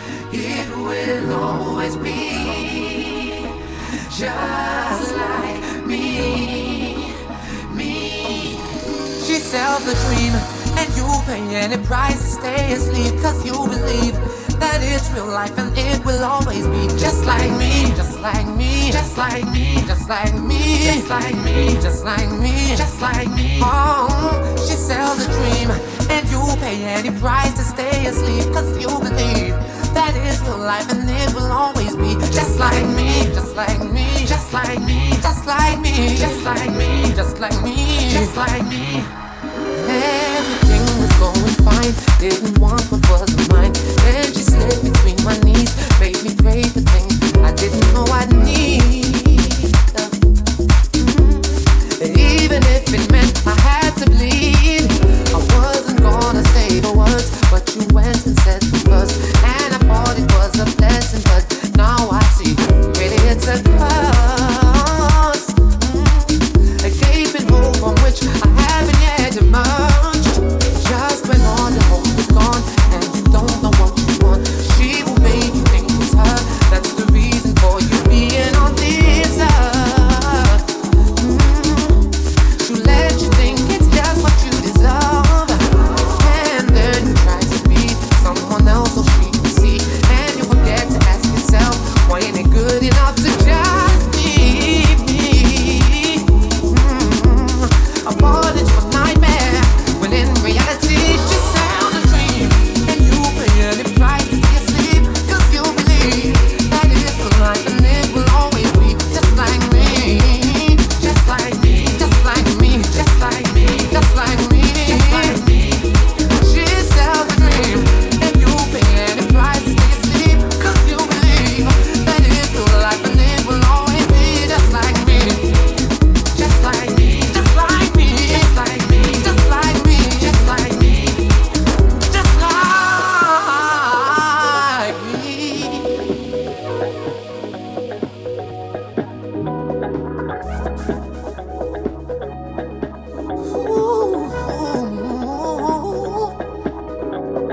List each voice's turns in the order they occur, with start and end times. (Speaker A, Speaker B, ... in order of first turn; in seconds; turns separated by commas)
Speaker A: 0.3-39.1, Speaker A: 39.7-50.1, Speaker A: 51.0-125.6, Speaker A: 126.3-131.4, Speaker A: 132.0-136.0, Speaker A: 143.4-146.4